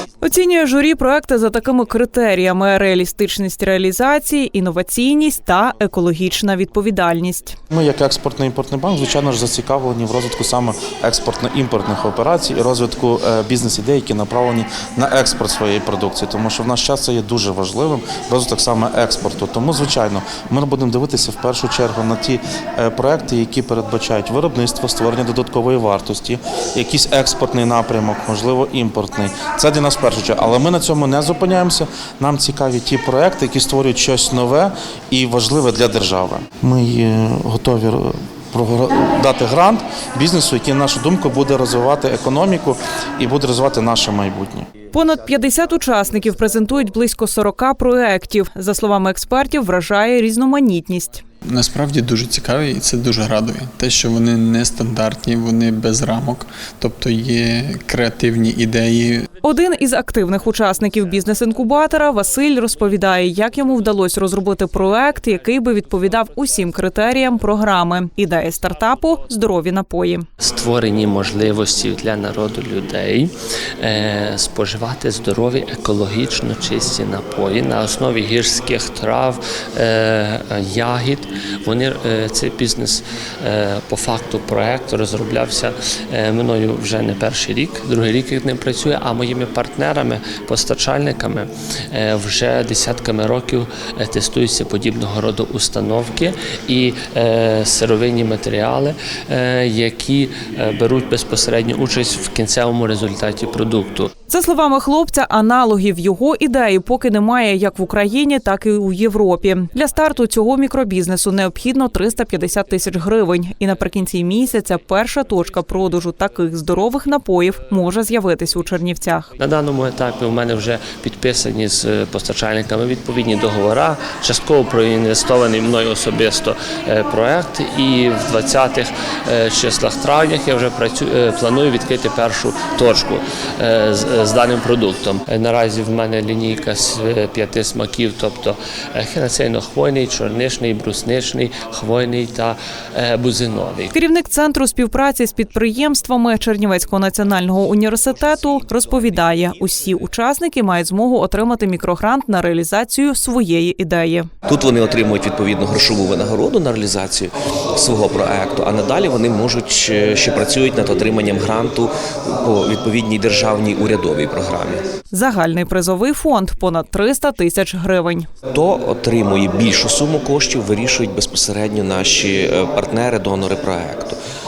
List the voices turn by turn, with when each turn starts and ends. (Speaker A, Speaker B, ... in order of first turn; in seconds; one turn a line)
Speaker A: 0.2-7.6
Speaker B: 7.7-44.7
Speaker A: 44.9-51.2
Speaker C: 51.5-59.3
Speaker A: 59.4-70.3
Speaker D: 70.4-104.1
Speaker A: 104.3-119.3
Speaker D: 119.4-143.9
Speaker A: 143.9-154.3
Speaker E: 154.5-164.8
Speaker A: 165.1-168.3
Speaker E: 168.5-174.2